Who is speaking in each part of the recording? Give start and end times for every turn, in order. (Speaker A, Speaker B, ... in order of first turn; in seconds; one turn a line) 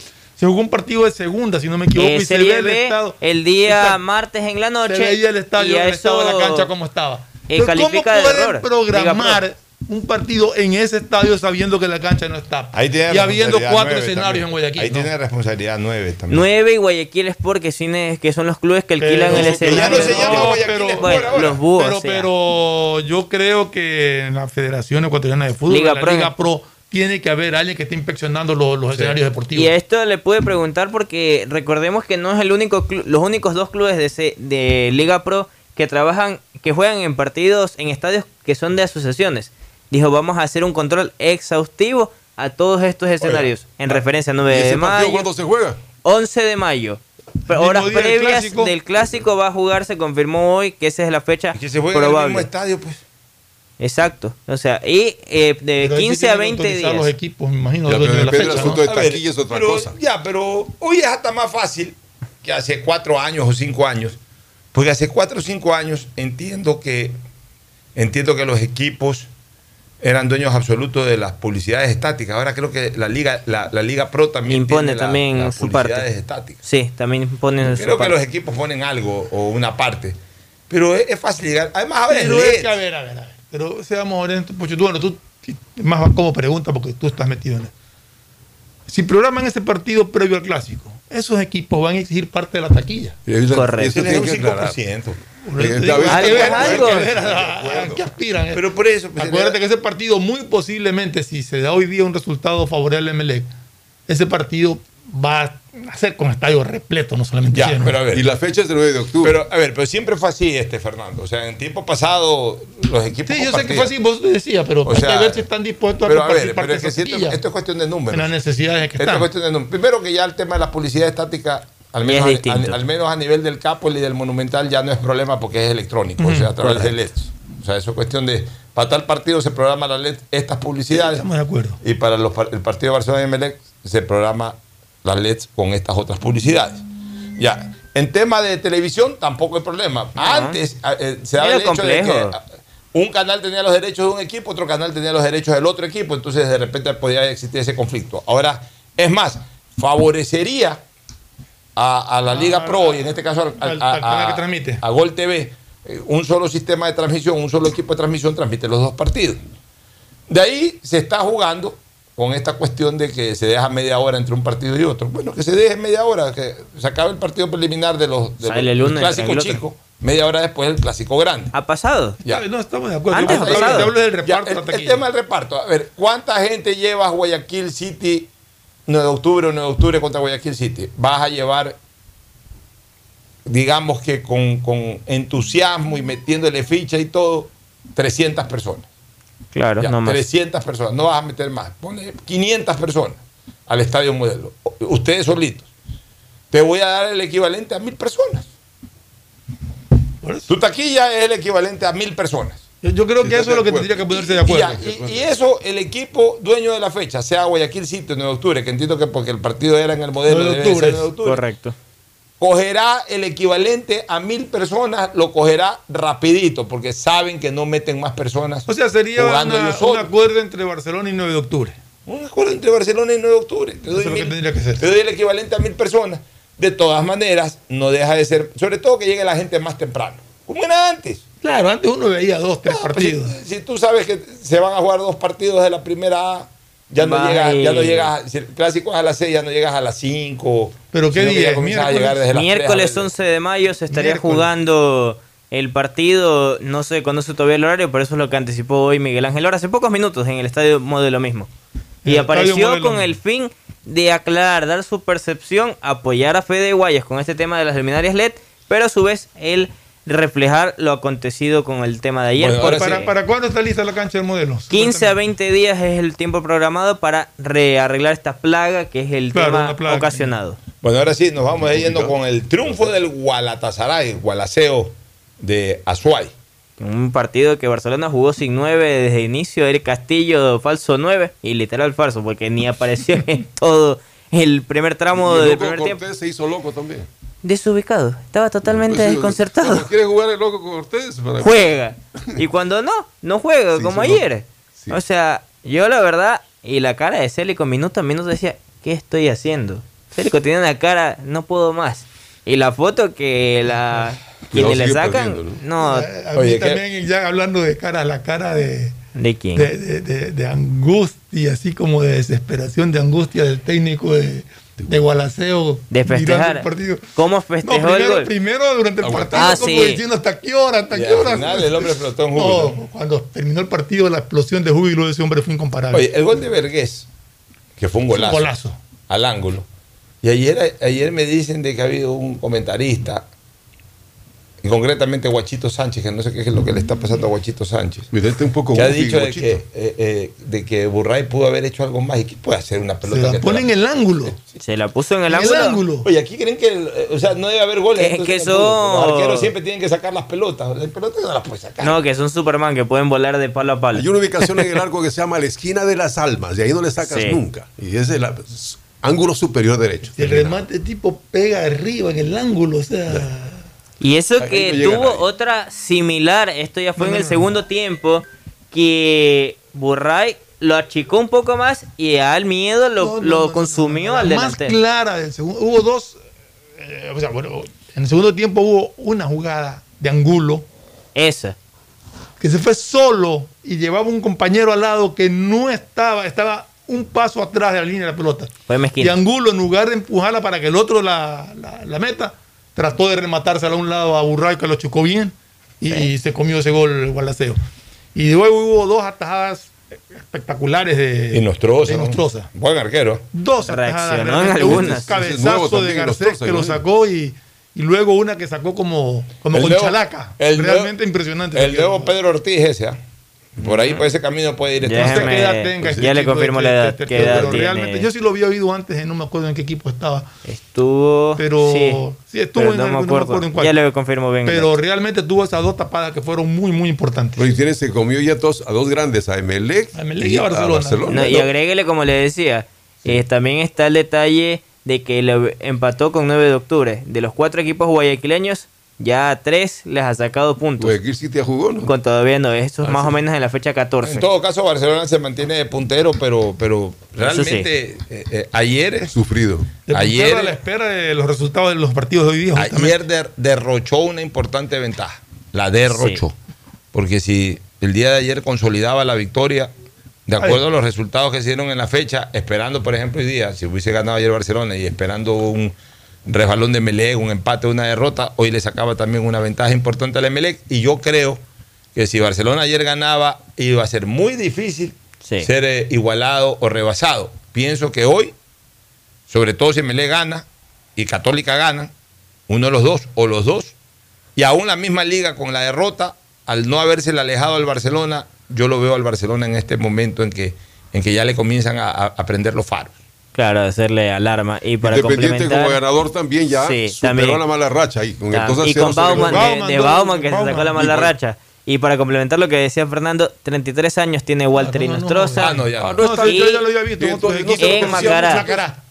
Speaker A: 0.4-4.0
Speaker B: 1.9-6.7
Speaker A: 4.8-15.1
Speaker B: 7.5-9.4
Speaker C: 12.7-16.4
Speaker B: 16.3-22.3
Speaker A: 19.0-29.7
Speaker C: 19.3-21.6
Speaker B: 25.7-26.3
Speaker B: 29.5-45.3
Speaker D: 43.2-45.8
Speaker B: 46.0-52.5
Speaker A: 47.5-48.7
Speaker C: 51.5-53.0
Speaker B: 53.8-57.1
Speaker A: 55.8-58.8
Speaker D: 57.8-60.0
Speaker C: 58.3-64.2
Speaker C: 64.7-67.2
Speaker C: 67.9-69.3
Speaker C: 70.0-76.6
Speaker B: 74.5-76.1
Speaker B: 76.6-78.1
Speaker C: 77.7-80.2
Speaker C: 80.7-82.8
Speaker A: 82.1-87.7
Speaker A: 88.9-93.2
Speaker D: 93.2-94.8
Speaker B: 93.5-94.2
Speaker C: 93.9-97.2
Speaker A: 95.4-98.6
Speaker D: 95.5-98.1
Speaker B: 96.1-97.0
Speaker C: 98.5-99.6
Speaker A: 99.2-103.5
Speaker A: 104.1-108.0
Speaker C: 107.5-108.2
Speaker D: 108.1-109.4
Speaker C: 109.2-113.9
Speaker A: 113.2-117.4
Speaker C: 114.8-115.5
Speaker C: 116.0-118.3
Speaker A: 118.1-119.3
Speaker C: 119.0-131.2
Speaker B: 122.0-122.8
Speaker A: 126.2-126.5
Speaker B: 126.6-126.9
Speaker A: 130.9-131.8
Speaker C: 131.8-136.8
Speaker C: 137.3-150.8
Speaker B: 140.2-140.6
Speaker B: 141.4-142.3
Speaker C: 151.8-159.4
Speaker A: 152.3-153.1
Speaker A: 153.6-154.8
Speaker C: 160.3-171.5
Speaker B: 168.4-169.6
Speaker B: 171.5-172.2
Speaker A: 172.2-175.0
Speaker B: 173.1-173.9
Speaker C: 173.2-178.3
Speaker C: 178.9-181.8
Speaker C: 183.4-188.9
Speaker B: 189.5-190.2
Speaker C: 189.8-195.7
Speaker C: 196.5-198.5
Speaker A: 200.2-200.5
Speaker C: 200.5-202.6
Speaker A: 202.8-204.8
Speaker D: 203.2-205.3
Speaker C: 204.1-211.4
Speaker A: 210.2-211.1
Speaker B: 211.2-211.7
Speaker C: 212.4-220.1
Speaker A: 218.7-221.8
Speaker C: 222.1-231.2
Speaker A: 223.9-224.8
Speaker A: 231.4-233.4
Speaker C: 232.7-243.1
Speaker B: 236.9-238.1
Speaker A: 240.9-242.2
Speaker B: 242.3-251.5
Speaker A: 243.9-244.5
Speaker A: 252.0-253.1
Speaker B: 252.1-263.1
Speaker C: 262.4-263.0
Speaker A: 262.6-265.1
Speaker B: 264.7-270.6
Speaker A: 269.3-270.3
Speaker C: 270.8-276.3
Speaker D: 271.5-272.9
Speaker B: 276.8-286.0
Speaker D: 285.1-287.1
Speaker B: 287.4-289.9
Speaker D: 288.7-291.7
Speaker B: 291.4-306.1
Speaker D: 293.7-294.3
Speaker D: 304.5-305.6
Speaker A: 305.8-308.9
Speaker C: 306.3-306.8
Speaker B: 309.1-309.7
Speaker A: 309.5-317.1
Speaker B: 315.9-318.3
Speaker A: 317.6-326.1
Speaker D: 319.0-319.4
Speaker C: 319.1-319.5
Speaker B: 319.3-320.0
Speaker C: 320.9-322.7
Speaker C: 325.9-327.1
Speaker C: 327.8-328.5
Speaker A: 328.1-328.8
Speaker C: 329.1-329.7
Speaker C: 330.2-333.3
Speaker C: 334.6-338.1
Speaker D: 338.1-339.6
Speaker C: 338.7-343.7
Speaker A: 343.1-344.3
Speaker C: 344.3-344.6
Speaker B: 344.6-345.8
Speaker A: 345.3-346.1
Speaker C: 346.0-351.9
Speaker B: 347.9-349.5
Speaker B: 351.8-354.8
Speaker D: 353.9-360.6
Speaker B: 357.0-357.4
Speaker A: 360.1-363.6
Speaker B: 364.0-374.8
Speaker D: 364.4-365.2
Speaker A: 366.9-367.6
Speaker A: 373.0-376.2
Speaker A: 376.8-380.6
Speaker B: 381.1-381.6
Speaker A: 382.4-397.6
Speaker B: 388.7-389.1
Speaker A: 398.1-402.5
Speaker C: 401.3-403.2
Speaker A: 403.3-412.1
Speaker B: 403.7-405.1
Speaker D: 404.6-406.8
Speaker C: 409.5-410.9
Speaker C: 411.5-413.0
Speaker C: 413.6-415.5
Speaker A: 413.6-413.9
Speaker B: 414.8-418.1
Speaker A: 414.9-420.3
Speaker D: 417.1-417.5
Speaker B: 420.4-422.0
Speaker A: 421.4-423.7
Speaker B: 422.6-424.7
Speaker A: 424.4-427.5
Speaker D: 427.4-431.5
Speaker A: 429.9-431.3
Speaker B: 431.1-440.9
Speaker D: 440.8-441.9
Speaker B: 441.8-444.2
Speaker D: 442.8-443.2
Speaker C: 444.0-449.1
Speaker B: 447.2-447.7
Speaker D: 449.1-449.7
Speaker A: 449.9-453.0
Speaker C: 449.9-450.6
Speaker C: 452.5-456.3
Speaker B: 455.9-456.2
Speaker C: 456.9-459.7
Speaker C: 460.3-465.7
Speaker C: 466.2-471.4
Speaker C: 471.9-478.3
Speaker B: 475.2-475.5
Speaker C: 479.3-481.9
Speaker C: 482.5-483.8
Speaker C: 484.4-493.0
Speaker B: 493.3-495.8
Speaker D: 494.8-499.6
Speaker B: 496.6-497.4
Speaker B: 498.3-505.6
Speaker A: 499.1-500.8
Speaker D: 500.6-501.1
Speaker A: 504.6-508.8
Speaker C: 505.4-506.0
Speaker D: 505.8-506.4
Speaker B: 506.1-506.6
Speaker D: 507.0-508.7
Speaker B: 507.6-508.4